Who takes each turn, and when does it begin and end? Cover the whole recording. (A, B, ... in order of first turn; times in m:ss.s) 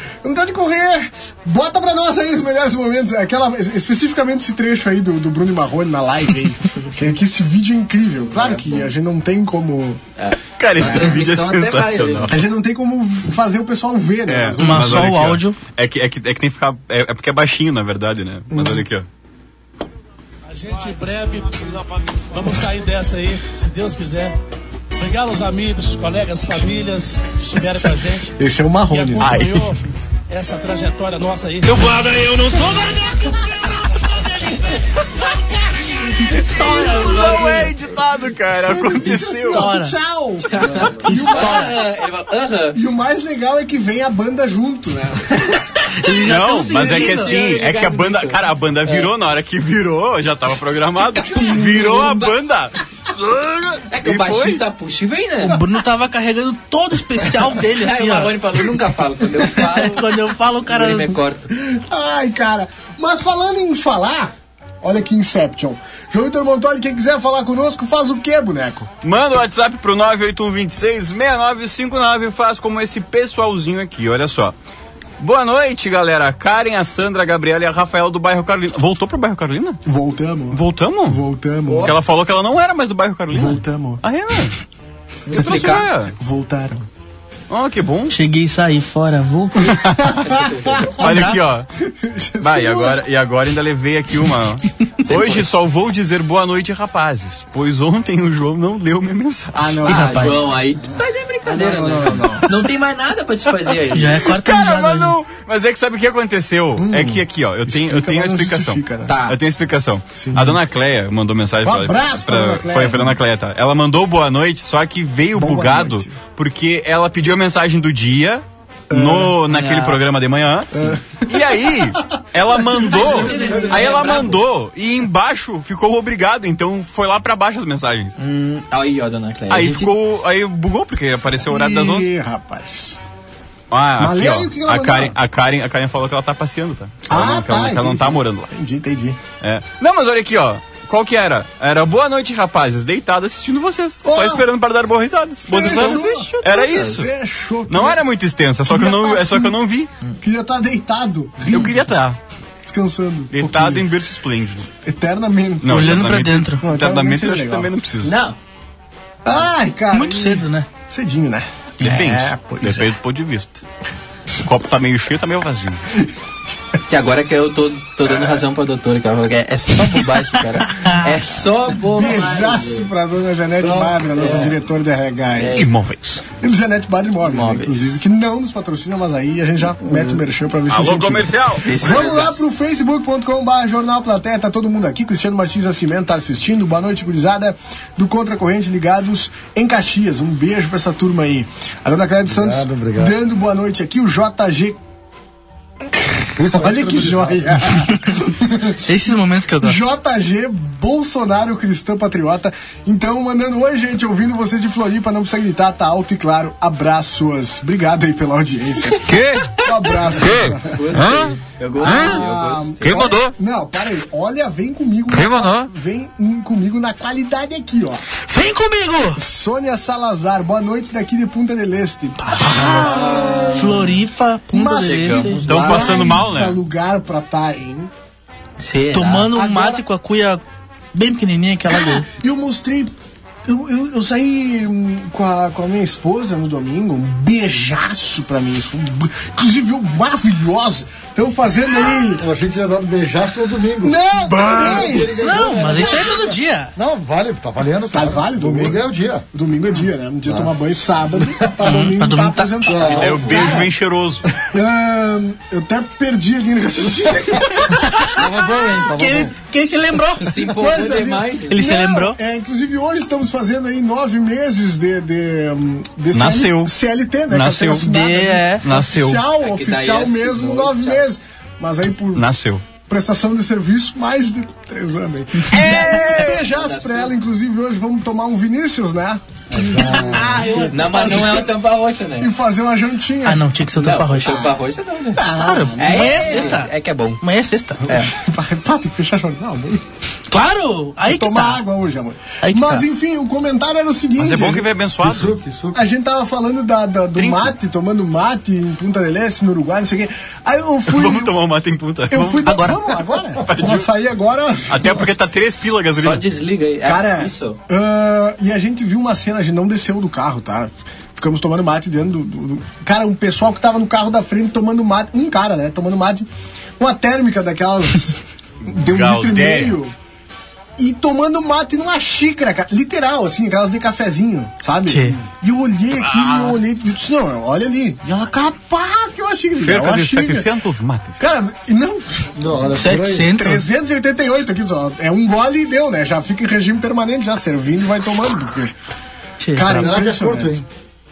0:00.2-0:10.0 A
0:08.3-0:08.9 B
0:10.2-0:12.4 B
0:10.6-0:12.4 C
0:12.3-0:15.2 A
0:14.3-0:19.1 C
0:14.6-0:15.6 D
0:18.5-0:18.8 A
0:20.5-0:24.4 E
0:25.0-0:28.3 E
0:28.4-0:29.4 A
0:28.9-0:33.0 E
0:29.2-0:29.8 C
0:31.7-0:33.0 C
0:36.4-0:37.6 D
0:36.5-0:37.7 A
0:36.7-0:39.7 C
0:38.7-0:41.8 A
0:39.5-0:40.0 D
0:40.5-0:42.8 B
0:41.0-0:41.6 C
0:42.7-0:45.6 A
0:46.0-0:47.4 D
0:46.2-0:54.6 C
0:46.8-0:49.1 B
0:51.1-0:52.3 B
0:53.9-0:55.6 B
0:55.4-0:58.4 D
0:57.7-1:00.1 B
0:59.6-1:01.2 D
1:00.7-1:01.5 B
1:01.5-1:08.9 A
1:09.0-1:14.6 C
1:15.2-1:19.8 C
1:19.9-1:22.0 A
1:20.5-1:21.2 C
1:21.7-1:22.0 B
1:21.8-1:24.6 C
1:23.3-1:24.0 A
1:25.3-1:25.9 B
1:25.3-1:26.2 C
1:26.2-1:26.9 A
1:27.5-1:28.2 C
1:28.1-1:29.8 D
1:29.7-1:30.0 C
1:30.0-1:33.0 A
1:30.2-1:30.9 B
1:31.0-1:31.7 C
1:31.1-1:31.3 D
1:32.4-1:40.0 C
1:35.0-1:35.4 B
1:39.5-1:40.3 A
1:39.9-1:40.5 D
1:39.9-1:44.3 B
1:41.4-1:42.5 A
1:43.9-1:45.2 D
1:44.2-2:08.2 C
1:46.8-1:49.1 A
1:49.1-1:49.4 B
1:50.2-1:50.6 A
1:51.6-1:53.2 A
1:55.4-1:56.1 A
1:58.9-1:59.4 A
1:59.5-2:00.0 B
2:00.7-2:01.3 A
2:02.5-2:04.3 A
2:02.8-2:04.4 B
2:08.2-2:09.9 B
2:09.5-2:12.1 C
2:11.5-2:13.0 A
2:13.7-2:18.5 C
2:14.0-2:15.2 A
2:17.1-2:19.2 A
2:19.4-2:27.1 C
2:24.0-2:24.5 A
2:25.5-2:28.0 A
2:25.6-2:27.0 B
2:27.7-2:29.9 C
2:28.6-2:29.6 A
2:30.2-2:31.8 A
2:31.5-2:32.2 C
2:32.6-2:33.9 A
2:33.3-2:34.7 C
2:34.8-2:36.0 A
2:35.6-2:38.1 C
2:35.7-2:36.6 D
2:36.6-2:37.7 A
2:38.0-2:38.4 B
2:39.2-2:42.9 A
2:39.9-2:40.7 D
2:41.8-2:43.6 C
2:44.4-2:45.8 C
2:46.9-2:52.9 B
2:50.7-2:51.1 D
2:51.8-2:55.6 A
2:53.6-2:54.2 F
2:54.2-2:54.6 B
2:55.4-2:55.7 B
2:55.6-2:56.2 C
2:56.4-3:14.8 A
2:57.2-2:58.0 B
2:59.8-3:00.2 F
3:00.7-3:02.0 C
3:01.6-3:02.5 B
3:12.3-3:13.2 F
3:15.9-3:19.0 A
3:16.4-3:17.7 F
3:18.8-3:19.8 D
3:19.6-3:30.8 A
3:29.0-3:32.2 C
3:30.7-3:33.0 B
3:31.8-3:38.1 A
3:32.8-3:33.3 C
3:35.1-3:35.7 C
3:38.2-3:39.2 D
3:39.2-3:43.9 A
3:42.2-3:45.6 D
3:42.6-3:43.9 B
3:44.5-3:47.9 A
3:44.8-3:46.2 B
3:45.5-3:46.6 C
3:48.6-3:49.3 B
3:48.9-3:50.4 D
3:49.3-3:49.8 A
3:50.9-3:52.1 D
3:52.2-3:52.9 A
3:53.5-4:02.2 A
4:02.2-4:09.3 F
4:03.8-4:05.2 A
4:05.2-4:06.7 D
4:07.9-4:08.8 A
4:09.3-4:13.7 A
4:10.2-4:10.5 F
4:11.6-4:12.7 D
4:12.7-4:13.2 F
4:12.8-4:13.5 B
4:12.9-4:14.3 C
4:14.5-4:17.9 A
4:17.9-4:18.2 D
4:18.1-4:19.3 F
4:18.8-4:20.5 D
4:20.2-4:21.6 B
4:20.5-4:32.3 A
4:21.5-4:22.2 D
4:26.1-4:26.8 C
4:27.3-4:27.9 C
4:27.8-4:28.6 D
4:28.6-4:29.2 C
4:29.4-4:31.0 B
4:32.1-4:32.6 C
4:32.9-4:41.6 A
4:35.5-4:36.4 C
4:35.5-4:37.1 B
4:39.5-4:42.3 B
4:39.5-4:40.7 F
4:42.2-4:43.5 A
4:43.2-4:44.5 D
4:43.8-4:47.2 B
4:45.2-4:46.6 A
4:45.4-4:47.9 D
4:47.9-4:48.1 B
4:47.9-4:49.8 A
4:50.3-4:51.6 D
4:51.0-4:54.7 A
4:52.4-4:52.8 D
4:54.2-4:55.4 C
4:55.0-4:55.8 F
4:55.7-5:01.3 A
4:57.2-4:57.5 C
5:00.9-5:02.5 C
5:02.1-5:05.0 A
5:02.4-5:02.8 D
5:03.4-5:03.9 C
5:04.7-5:06.2 C
5:06.0-5:07.6 B
5:06.8-5:16.3 A
5:16.8-5:19.9 A
5:18.8-5:19.8 C
5:20.8-5:30.5 A
5:24.9-5:25.2 D
5:26.0-5:26.6 C
5:29.6-5:31.2 C
5:31.2-5:32.7 A
5:32.4-5:33.3 F
5:32.7-5:33.7 D
5:33.3-5:38.7 A
5:39.4-5:40.0 D
5:39.6-5:40.6 A
5:39.6-5:40.7 F